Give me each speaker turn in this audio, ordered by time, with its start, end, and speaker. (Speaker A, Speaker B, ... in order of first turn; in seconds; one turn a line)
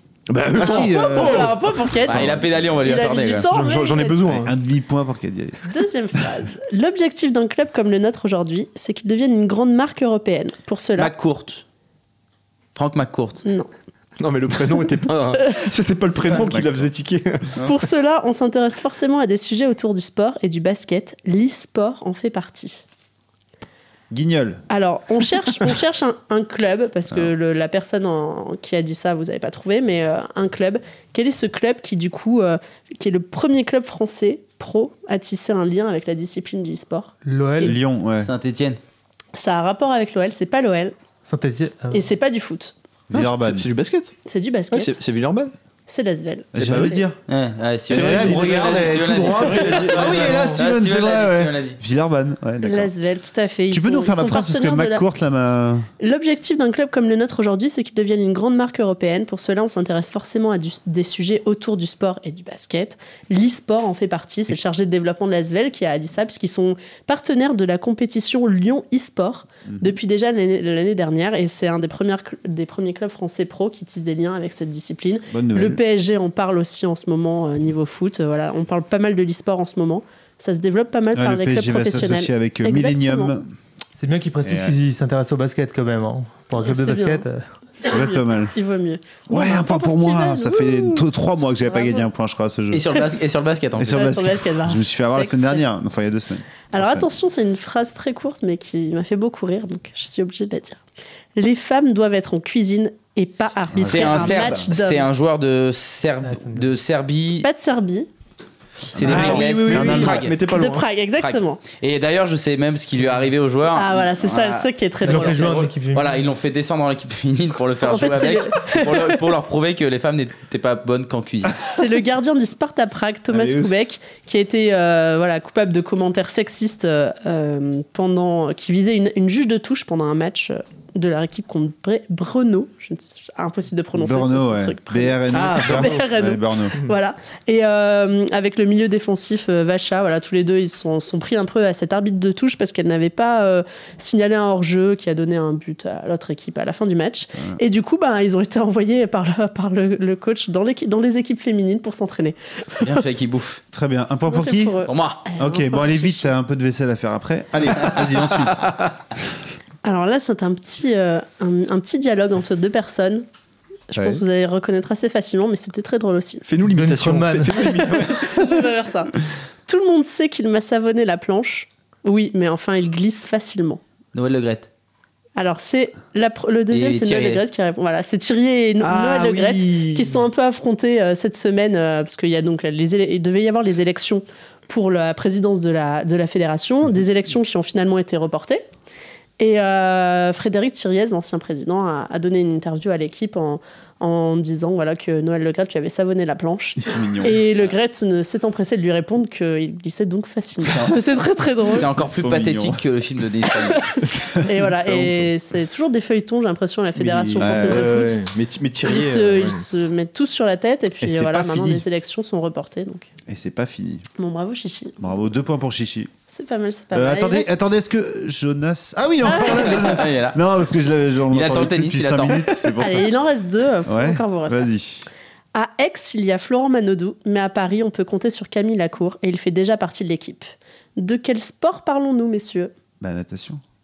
Speaker A: 0.3-1.6
Speaker B: 0.6-2.6
Speaker C: 0.6-4.4
Speaker D: 2.0-3.5
Speaker A: 3.5-4.5
Speaker B: 4.3-5.7
Speaker C: 5.7-11.1
Speaker D: 11.0-11.6
Speaker D: 12.7-13.4
Speaker A: 14.2-17.5
Speaker B: 16.3-16.9
Speaker C: 17.6-22.8
Speaker B: 24.1-24.6
Speaker C: 24.7-37.7
Speaker E: 37.2-37.8
Speaker B: 37.6-38.3
Speaker D: 38.2-38.8
Speaker C: 39.3-40.9
Speaker E: 41.2-42.1
Speaker C: 41.9-42.7
Speaker B: 43.1-43.7
Speaker A: 43.1-44.1
Speaker C: 44.2-45.0
Speaker A: 44.7-45.5
Speaker C: 45.9-47.0
Speaker B: 46.5-47.1
Speaker A: 46.6-47.0
Speaker D: 47.3-51.8
Speaker A: 47.9-50.6
Speaker B: 47.9-52.9
Speaker C: 52.6-55.0
Speaker B: 53.7-55.9
Speaker C: 56.0-83.3
Speaker B: 69.7-70.0
Speaker B: 75.3-75.8
Speaker B: 81.1-83.5
Speaker E: 84.0-87.5
Speaker B: 84.4-84.7
Speaker C: 86.6-87.2
Speaker C: 87.8-91.0
Speaker B: 87.9-88.5
Speaker B: 89.3-92.9
Speaker C: 91.7-92.0
Speaker D: 92.7-94.2
Speaker B: 93.8-97.1
Speaker C: 93.9-95.6
Speaker C: 96.7-100.8
Speaker C: 101.3-105.1
Speaker B: 103.7-104.7
Speaker D: 103.8-107.5
Speaker E: 106.2-106.7
Speaker C: 107.4-108.1
Speaker D: 108.9-110.3
Speaker B: 108.9-110.2
Speaker A: 109.0-110.9
Speaker C: 110.4-111.6
Speaker D: 111.2-121.6
Speaker C: 113.7-115.7
Speaker E: 115.0-116.2
Speaker C: 117.8-119.2
Speaker C: 121.6-152.9
Speaker B: 123.3-123.8
Speaker B: 133.9-136.8
Speaker A: 135.3-136.1
Speaker D: 152.8-153.6
Speaker B: 153.7-154.8
Speaker C: 154.3-156.3
Speaker D: 154.8-155.2
Speaker B: 155.4-158.7
Speaker C: 159.8-163.2
Speaker C: 163.9-166.5
Speaker B: 163.9-164.2
Speaker A: 166.5-168.7
Speaker E: 166.7-167.7
Speaker C: 167.6-169.1
Speaker C: 169.7-173.8
Speaker D: 174.1-174.7
Speaker C: 175.3-188.6
Speaker D: 176.7-177.4
Speaker A: 178.8-180.2
Speaker C: 189.4-201.9
Speaker B: 196.8-197.4
Speaker D: 201.7-203.8
Speaker B: 201.9-202.8
Speaker C: 203.7-208.2
Speaker B: 204.0-205.3
Speaker A: 206.9-209.6
Speaker B: 207.3-207.9
Speaker C: 208.8-213.1
Speaker B: 211.0-211.8
Speaker B: 213.3-214.1
Speaker C: 214.2-215.0
Speaker B: 215.0-216.1
Speaker C: 216.3-217.5
Speaker B: 216.9-223.1
Speaker C: 219.3-220.0
Speaker D: 219.3-220.4
Speaker D: 221.3-222.4
Speaker C: 222.8-224.7
Speaker B: 223.9-225.1
Speaker C: 225.5-232.7
Speaker B: 233.0-233.6